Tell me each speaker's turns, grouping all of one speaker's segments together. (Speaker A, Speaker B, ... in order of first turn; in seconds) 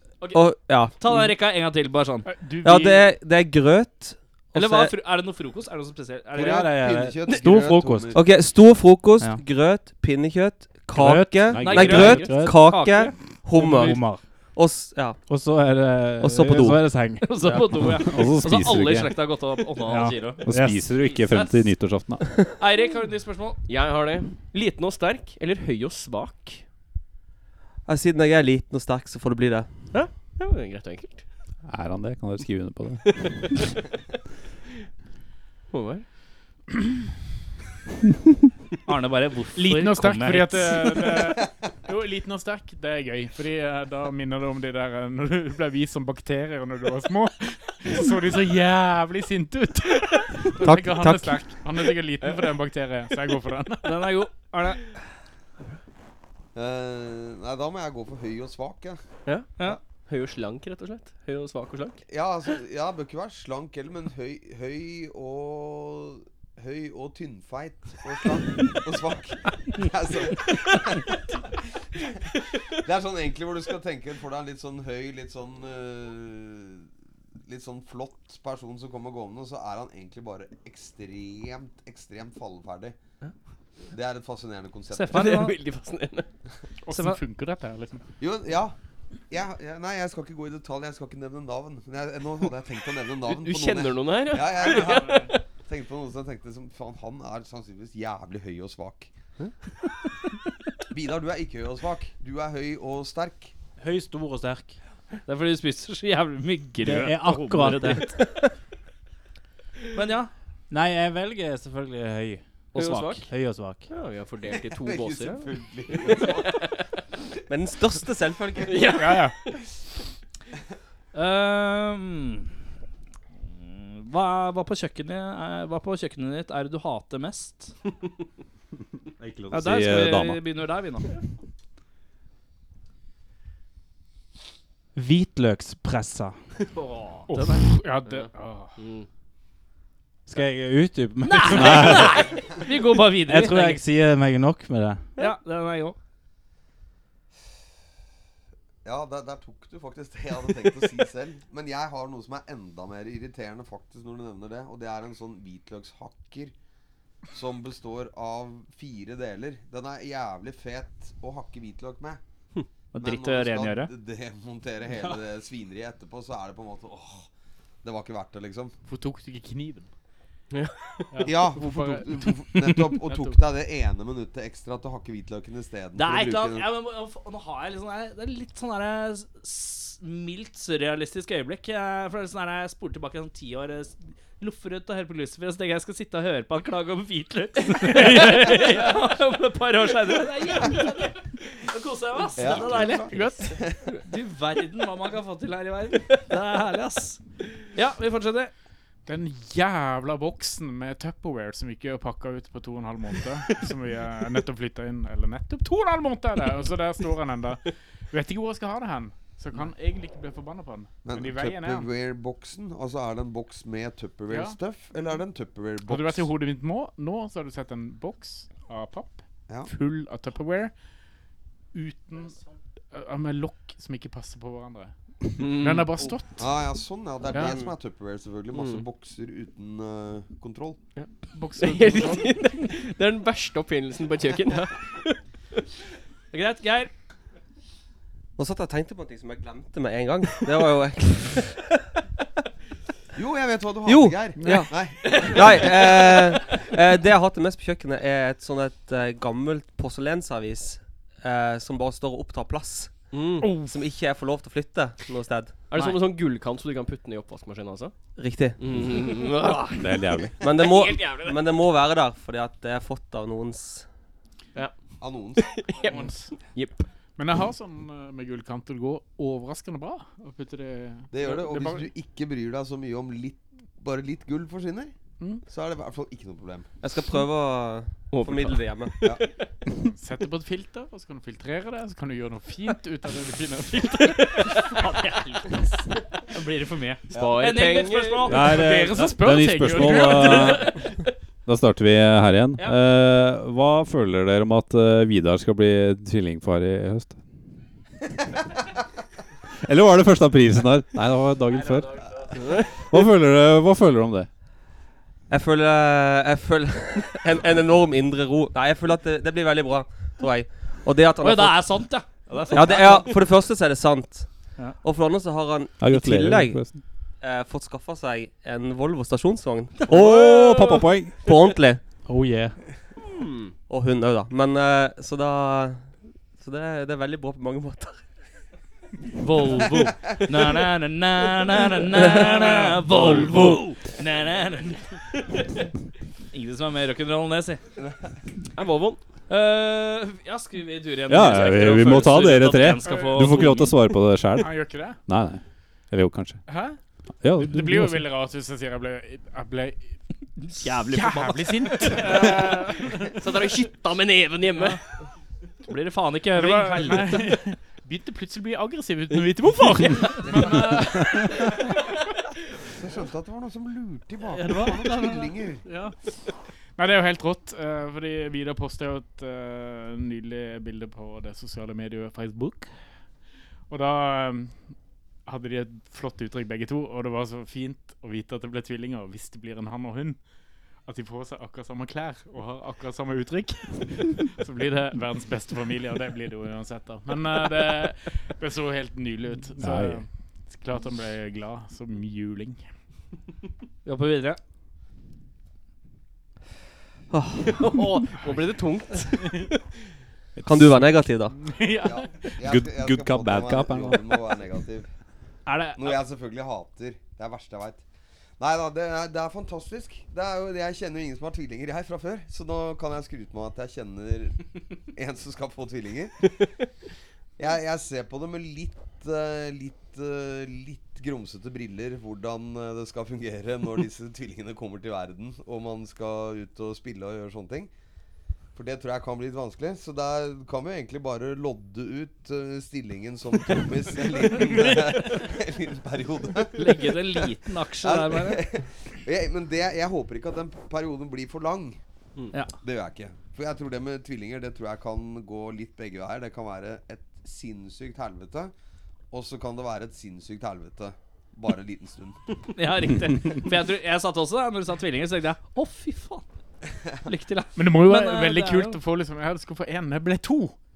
Speaker A: 0.3-1.3, 2.6-4.9, 8.1-15.2, 16.2-17.7, 27.9-30.0, 50.7-51.3, 117.5-118.8, 227.4-227.7, 238.4-241.6, 243.8-255.7, 258.1-258.6, 260.4-263.9, 276.8-279.1, 305.3-312.0, 312.5-316.7, 317.2-321.8, 323.7-328.1, 332.0-332.3, 397.1-397.6, 400.4-401.4
Speaker B: 1.0-2.3, 4.5-6.7, 11.6-13.1, 17.2-20.4, 21.0-21.7, 22.6-23.6, 38.9-40.9, 53.8-54.8, 84.9-85.5, 86.9-87.2, 105.2-108.2, 109.9-110.3, 121.1-122.5, 123.5-127.7, 129.5-131.1, 136.8-137.6, 141.2-143.8, 145.2-145.9, 162.9-163.9, 175.9-193.3, 194.1-198.5, 236.3-236.9, 284.7-285.6, 286.3-289.0, 289.6-290.8, 311.2-313.1, 329.2-334.8, 336.3-337.6, 339.3-343.7, 350.5-352.1, 355.7-357.2, 393.8-394.4, 405.4-406.0, 436.5-438.4, 452.6-456.2, 457.0-458.8
Speaker C: 2.2-3.1, 39.5-54.0, 86.8-88.0, 94.7-95.3, 118.9-119.4, 137.3-138.8, 168.8-169.9, 171.1-173.4, 187.8-188.8, 192.5-193.6, 199.1-211.9, 214.3-214.6, 215.8-220.7, 221.7-222.4, 222.9-226.7, 227.3-227.6, 231.3-232.6, 244.4-245.2, 253.4-253.8, 265.8-266.3, 267.2-271.9, 275.2-275.4, 279.8-284.8, 288.5-290.8, 342.8-343.7, 344.4-345.0, 346.5-346.8, 347.4-349.9, 350.8-353.3, 356.3-361.8, 366.8-372.7, 373.7-374.6, 375.2-380.2, 380.9-392.6, 401.3-402.4, 457.5-460.6
Speaker D: 6.3-8.2, 56.5-59.0, 62.1-71.2, 72.7-76.9, 77.5-83.0, 83.9-85.4, 88.2-88.7, 89.3-99.1, 100.9-103.5, 114.5-116.7, 148.8-156.5, 157.3-162.2, 163.0-167.3, 167.8-168.7, 171.2-176.7, 192.3-193.8, 211.0-216.3, 226.4-230.8, 243.1-245.8, 265.0-265.6, 271.1-274.9, 275.4-276.7, 287.1-287.5, 362.8-365.6, 401.8-404.9, 405.8-407.8, 408.4-416.2, 417.4-427.7, 428.5-436.9, 437.8-441.8, 442.6-448.5, 449.1-452.2
Speaker E: 6.4-8.2, 10.9-12.8, 13.5-14.3, 15.2-17.4, 19.9-20.9, 103.8-104.8, 106.8-108.1, 110.7-113.9, 134.9-136.4, 140.2-142.2, 143.2-145.1, 301.5-302.7, 322.0-322.6, 364.3-365.3
Speaker F: 11.5-11.9, 17.8-19.1, 20.4-22.2, 31.6-33.6, 129.2-130.4, 141.5-142.2, 259.8-260.4, 288.3-290.8, 291.4-297.2, 299.6-301.9, 302.9-304.3, 315.8-316.8, 319.9-321.1, 341.1-346.4, 347.2-348.0, 389.6-390.0, 400.4-400.9, 402.4-404.1
Speaker G: 11.9-12.3, 23.7-26.6, 29.9-31.2, 35.7-36.0, 52.2-52.5, 59.2-59.5, 60.0-62.0, 85.1-86.3, 93.2-95.4, 112.7-113.3, 113.9-116.8, 118.6-119.6, 138.1-139.1, 170.5-171.1, 225.4-226.1, 228.5-228.8, 231.0-235.2, 253.1-253.5, 255.7-257.9, 258.6-260.2, 265.4-266.9, 278.1-279.3, 284.0-284.7, 287.1-288.5, 302.3-302.7, 323.1-323.5, 338.5-339.0, 351.9-354.8, 397.5-399.5